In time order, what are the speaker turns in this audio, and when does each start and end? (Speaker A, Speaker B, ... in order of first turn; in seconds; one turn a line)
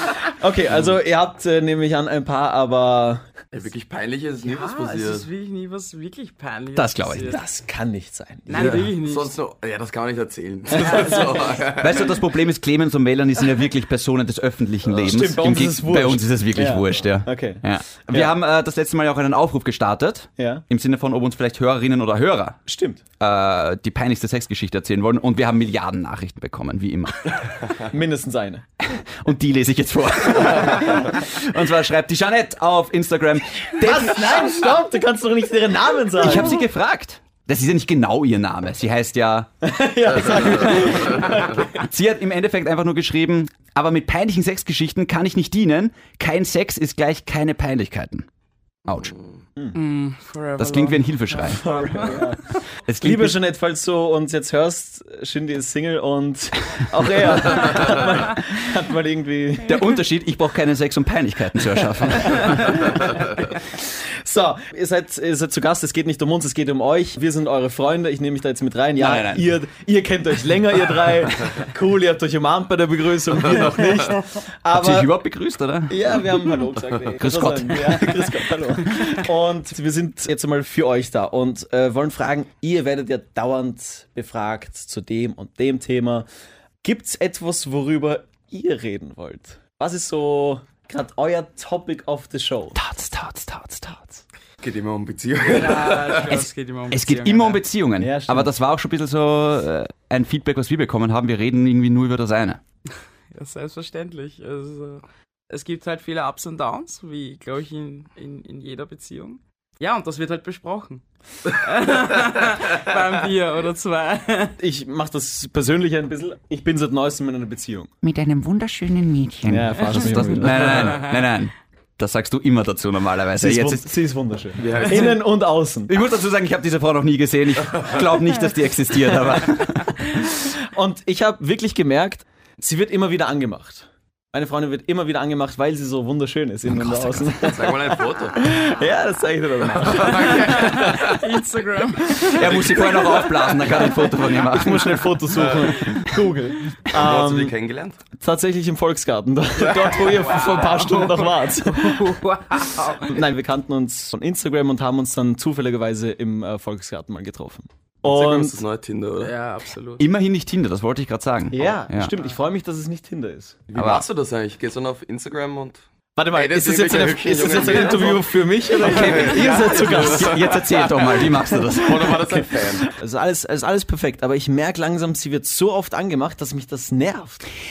Speaker A: 0.2-3.3
Speaker B: 3.5-5.3
Speaker C: 4.4-7.4
Speaker D: 6.8-7.4
Speaker A: 7.3-8.9
Speaker C: 8.5-9.3
Speaker B: 8.7-12.2
Speaker A: 10.7-11.2
Speaker D: 11.8-22.6
Speaker A: 14.9-18.3
Speaker A: 20.4-20.6
Speaker A: 22.7-23.0
Speaker D: 23.2-27.8
Speaker A: 27.8-28.6
Speaker D: 28.9-34.7
Speaker A: 33.8-36.6
Speaker D: 36.2-39.5
Speaker A: 39.6-41.9
Speaker D: 40.3-48.3
Speaker B: 41.0-41.3
Speaker D: 48.9-49.1
Speaker B: 49.1-49.3
Speaker C: 49.7-52.2
Speaker D: 50.6-51.7
Speaker A: 51.4-52.4
Speaker D: 52.9-53.4
Speaker A: 53.0-59.8
Speaker D: 59.6-63.3
Speaker A: 62.2-63.2
Speaker A: 63.7-75.1
Speaker D: 69.0-69.5
Speaker B: 73.4-74.2
Speaker D: 74.7-76.6
Speaker A: 75.9-86.3
Speaker D: 77.2-79.2
Speaker A: 86.8-92.8
Speaker D: 92.7-94.2
Speaker B: 94.6-96.3
Speaker C: 95.5-97.6
Speaker D: 96.9-102.6
Speaker A: 98.0-98.5
Speaker C: 103.3-114.6
Speaker A: 114.6-117.9
Speaker D: 118.0-123.9
Speaker A: 119.4-121.0
Speaker C: 120.7-121.1
Speaker A: 123.4-125.9
Speaker B: 124.6-125.2
Speaker D: 124.8-125.0
Speaker D: 125.9-130.3
Speaker A: 130.2-141.2
Speaker D: 136.7-137.5
Speaker B: 137.4-138.5
Speaker B: 139.7-141.2
Speaker C: 140.5-142.5
Speaker D: 142.3-145.4
Speaker B: 142.4-142.9
Speaker A: 143.8-147.6
Speaker B: 145.4-145.7
Speaker B: 146.9-148.0
Speaker A: 148.2-152.2
Speaker C: 149.7-153.2
Speaker A: 153.0-158.6
Speaker B: 158.0-159.3
Speaker C: 159.2-160.0
Speaker D: 160.0-162.1
Speaker A: 161.5-163.6
Speaker B: 163.7-172.9
Speaker D: 163.7-164.1
Speaker A: 166.2-170.5
Speaker D: 168.8-172.4
Speaker A: 172.4-177.4